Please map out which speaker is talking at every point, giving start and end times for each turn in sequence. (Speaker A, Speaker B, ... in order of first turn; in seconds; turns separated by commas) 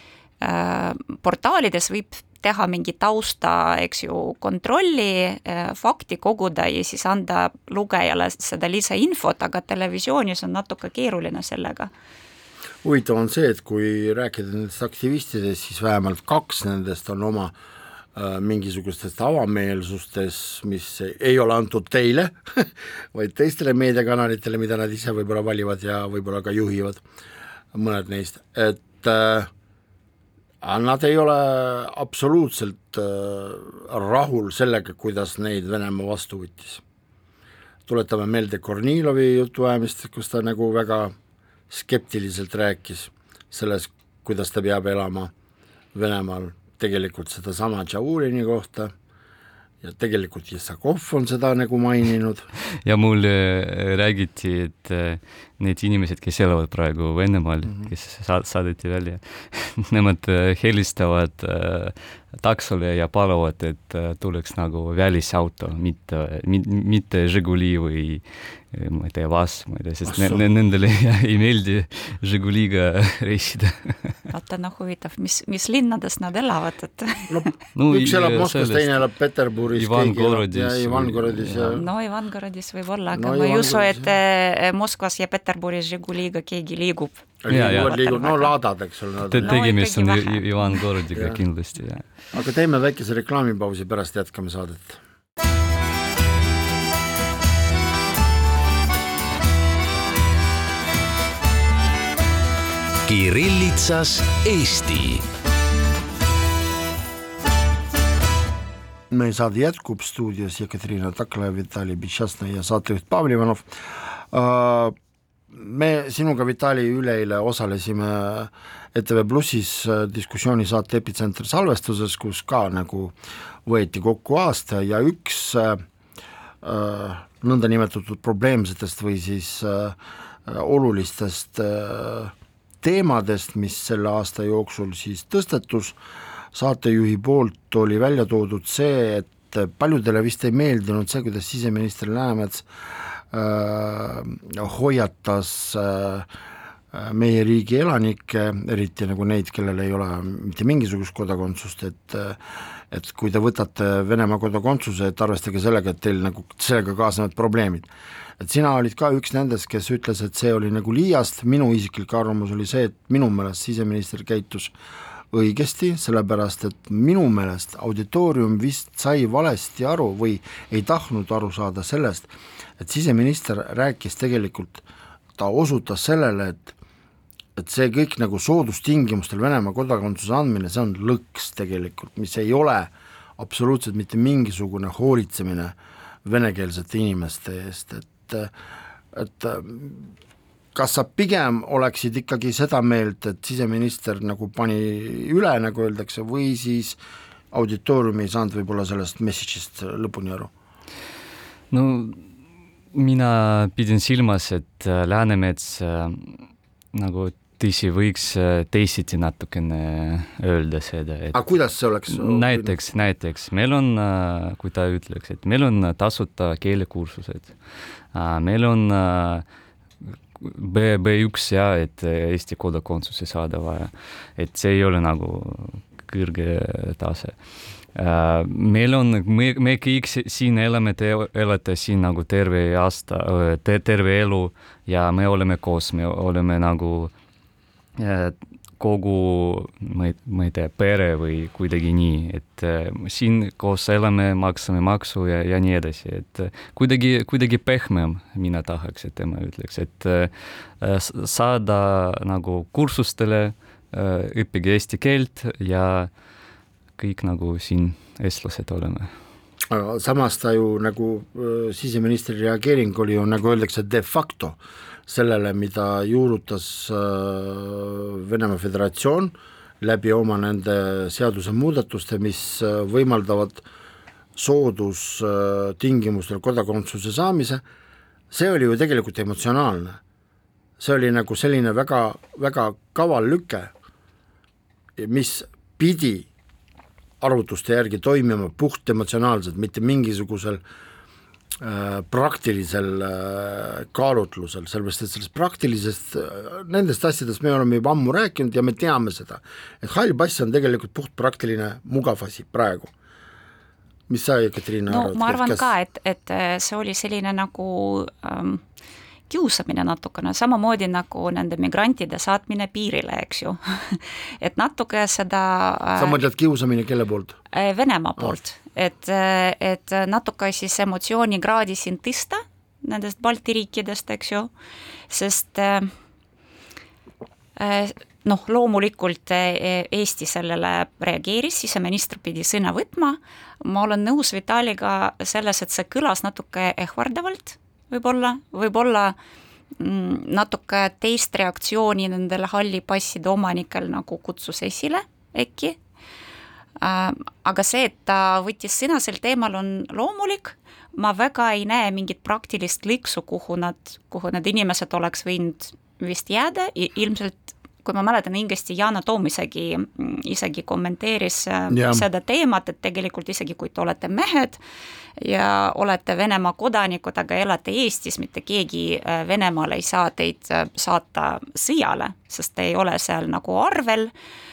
Speaker A: 0.4-11.9, Speaker B: 12.8-17.5, Speaker B: 18.1-27.0, Speaker B: 27.7-29.5, Speaker B: 30.6-36.8, Speaker B: 37.9-41.1, Speaker B: 41.7-45.3, Speaker B: 45.9-48.9, Speaker B: 49.8-52.5, Speaker C: 52.7-74.2, Speaker B: 70.1-70.4, Speaker A: 74.3-77.5, Speaker B: 77.3-81.8, Speaker C: 77.7-79.0, Speaker C: 79.7-81.8, Speaker A: 81.7-88.5, Speaker B: 83.1-84.1, Speaker B: 87.4-89.6, Speaker C: 87.5-88.0, Speaker C: 89.3-92.0, Speaker A: 89.4-90.8, Speaker B: 91.1-91.4, Speaker B: 92.3-95.0, Speaker D: 103.0-105.2, Speaker B: 109.1-114.9, Speaker B: 115.5-125.8, Speaker B: 126.6-136.0, Speaker B: 136.5-146.3, Speaker B: 146.9-157.9, Speaker B: 158.4-164.7, Speaker B: 165.3-174.8, Speaker B: 175.3-176.7, Speaker B: 177.6-188.5, Speaker B: 189.1-190.1, Speaker B: 190.7-197.0, Speaker B: 197.5-200.5, Speaker C: 201.7-202.3, Speaker C: 202.9-211.4, Speaker B: 211.3-212.7, Speaker C: 212.1-219.4, Speaker C: 220.3-237.1, Speaker C: 238.0-256.1, Speaker C: 257.0-259.1, Speaker B: 259.7-273.6, Speaker B: 274.4-277.6, Speaker B: 278.3-280.0, Speaker B: 280.8-283.7, Speaker B: 285.0-286.3, Speaker B: 287.2-290.6, Speaker B: 291.6-302.9, Speaker B: 304.1-305.7, Speaker A: 304.9-308.6, Speaker A: 309.3-316.2, Speaker B: 316.0-317.4, Speaker A: 317.5-324.5, Speaker A: 325.1-325.9, Speaker A: 327.6-339.1, Speaker A: 339.8-345.8, Speaker A: 346.8-364.6, Speaker B: 361.7-362.0, Speaker A: 365.2-374.1